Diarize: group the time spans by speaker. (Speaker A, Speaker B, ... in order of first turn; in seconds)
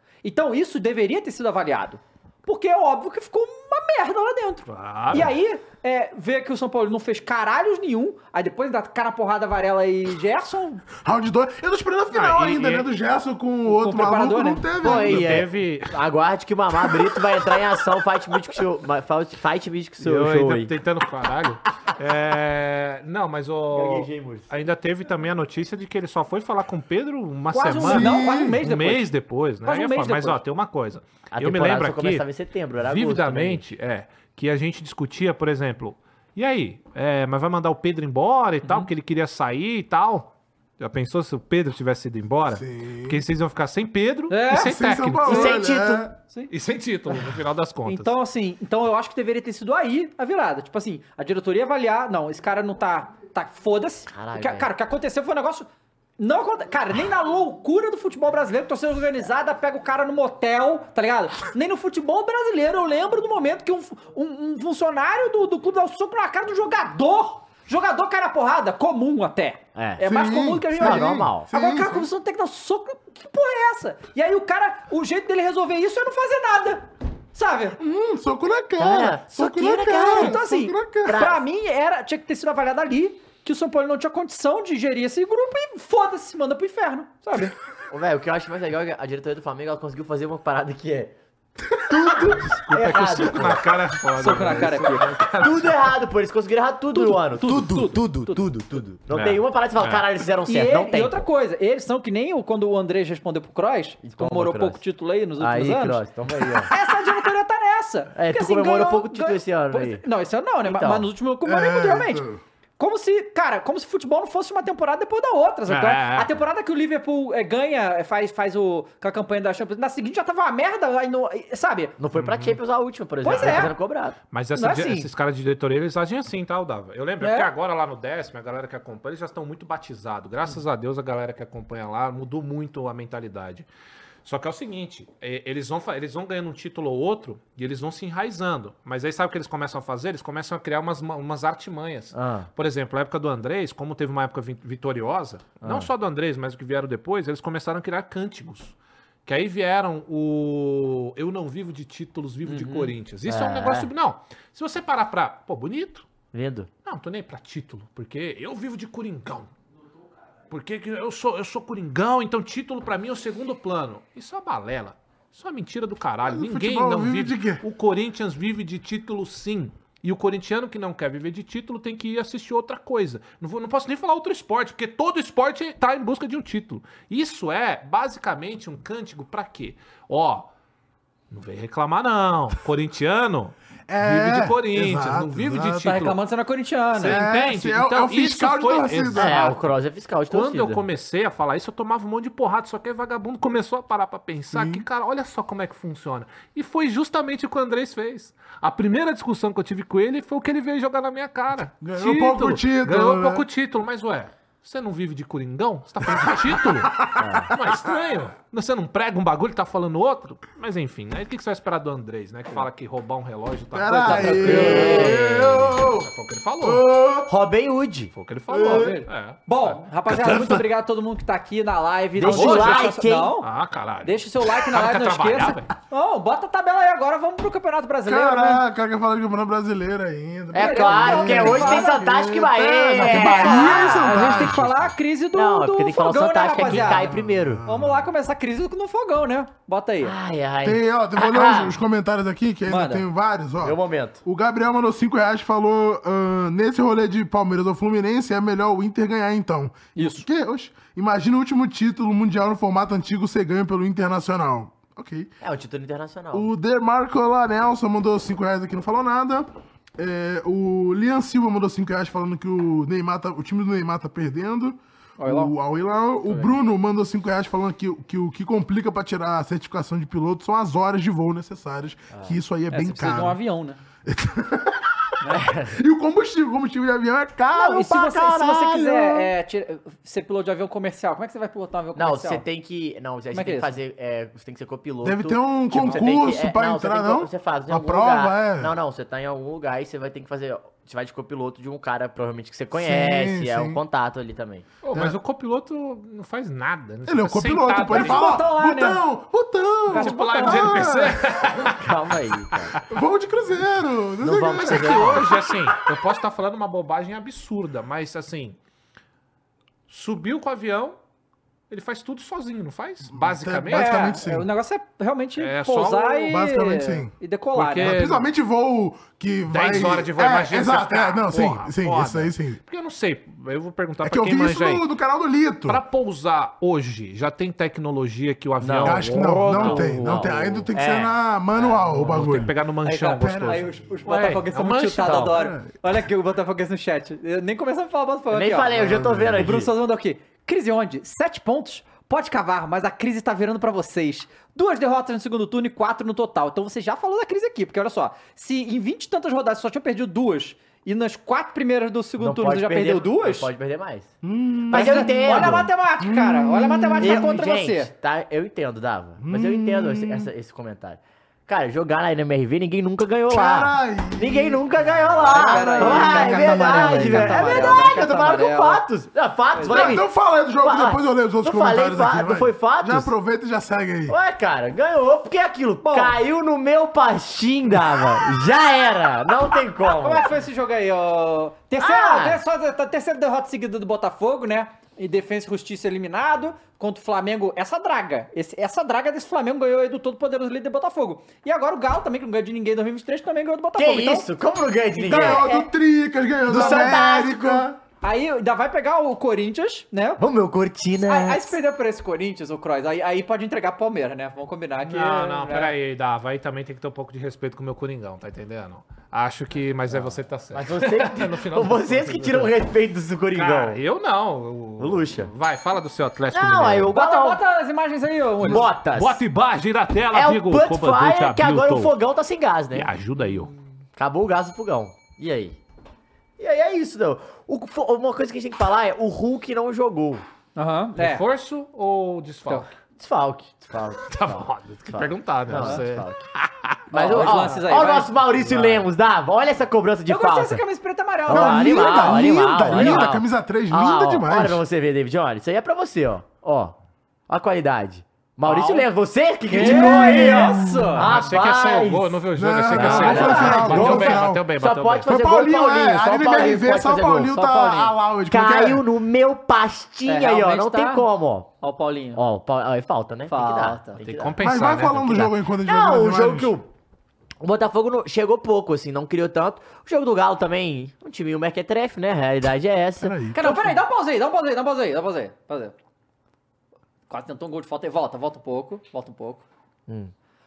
Speaker A: 0.2-10.8, 13.7-14.7, 27.5-29.1, 29.6-30.4, 38.6-38.9, 44.3-44.7, 47.9-77.8, 80.1-87.5, 94.2-95.1, 96.9-98.4, 100.5-106.0, 106.6-112.2, 112.8-121.9, 123.2-123.7, 124.5-125.1, 127.2-127.5, 152.5-152.9, 185.8-187.2, 214.0-215.1, 218.6-223.5, 224.0-228.6, 230.6-232.0, 233.0-237.1, 237.7-240.2, 242.7-243.1, 249.9-250.3, 265.2-265.5, 272.7-273.8, 277.5-282.4, 283.3-283.8, 297.9-299.0, 299.9-300.9, 313.7-317.9, 332.8-338.7, 339.4-353.5, 354.7-357.9, 365.3-368.8, 369.5-370.0, 375.8-376.1, 380.0-394.2, 396.5-397.0, 398.0-400.2, 401.1-405.7, 416.9-418.7, 430.6-431.2, 436.9-438.1, 440.1-443.1, 448.4-448.8, 449.5-451.1, 452.8-454.2, 457.3-457.9, 460.0-461.1, 461.6-462.2, 463.3-464.0, 473.3-475.7, 477.1-479.4
Speaker B: 4.7-5.3, 12.1-12.9, 14.8-15.9, 20.0-32.3, 32.8-45.4, 46.5-48.1, 92.6-95.9, 99.1-100.0, 115.7-116.3, 122.1-122.6, 123.3-123.7, 124.3-133.7, 134.2-156.1, 156.8-159.5, 160.5-180.5, 181.3-186.2, 186.9-189.5, 190.3-216.8, 218.1-219.8, 222.2-222.9, 223.4-225.7, 294.8-298.2, 299.9-301.8, 304.6-308.6, 309.9-311.0, 311.7-314.1, 315.4-316.3, 317.5-318.2, 319.5-324.9, 325.6-330.0, 331.6-335.3, 404.8-412.5, 413.3-416.9, 418.5-421.9, 422.7-423.5, 431.0-432.7, 434.1-437.4, 448.5-448.8, 451.0-455.1, 464.0-465.3
Speaker C: 11.0-15.4, 27.8-28.6, 42.5-43.2, 44.5-46.1, 70.0-72.1, 77.8-81.3, 111.4-112.4, 166.2-167.6, 183.9-186.0, 187.0-189.6, 194.5-194.8, 201.8-203.4, 206.1-207.7, 213.7-216.1, 216.6-217.3, 218.5-219.0, 220.1-220.6, 222.2-222.6, 228.0-234.9, 236.6-238.1, 240.6-255.3, 256.3-273.4, 274.0-275.1, 275.7-279.0, 285.0-288.8, 292.7-293.8, 297.1-301.4, 302.9-305.3, 313.1-314.5, 316.2-317.1, 317.8-322.6, 324.0-325.8, 328.8-332.5, 333.2-333.9, 335.3-335.7, 338.7-339.6, 354.2-357.4, 359.2-360.3, 363.3-368.1, 369.6-374.2, 394.9-397.8, 441.3-444.6, 449.5-451.1, 452.4-454.5, 455.1-458.9, 464.4-466.5, 473.0-473.8
Speaker D: 14.8-20.7, 23.7-24.5, 31.3-33.6, 45.2-46.1, 54.1-54.7, 69.7-70.0, 70.8-71.5, 78.8-80.4, 81.0-81.4, 87.9-91.1, 91.9-93.6, 94.3-94.7, 95.4-101.2, 104.0-104.8, 105.4-106.7, 108.1-110.0, 110.6-111.1, 122.0-124.2, 142.1-142.5, 145.6-145.9, 153.3-153.9, 156.3-156.7, 189.1-190.8, 207.2-207.5, 214.4-215.7, 217.3-218.1, 222.2-223.3, 230.5-234.7, 235.3-237.6, 240.0-241.7, 243.6-244.2, 255.4-256.5, 272.1-272.4, 275.3-275.8, 278.3-279.2, 281.9-294.6, 301.8-302.8, 304.2-305.3, 328.6-331.1, 335.0-335.4, 338.3-339.7, 352.2-354.1, 354.7-355.7, 357.0-370.1, 370.6-373.1, 374.1-380.3, 381.8-382.4, 393.8-395.7, 396.5-397.7, 400.2-401.5, 409.9-413.8, 414.8-415.3, 416.3-417.4, 418.4-419.2, 420.1-422.9, 423.9-425.6, 426.4-430.2, 433.0-436.1, 436.9-440.6, 441.2-446.8, 447.3-452.2, 452.7-457.4, 458.3-461.5, 462.1-464.3, 465.6-466.7, 467.4-473.4, 479.9-480.1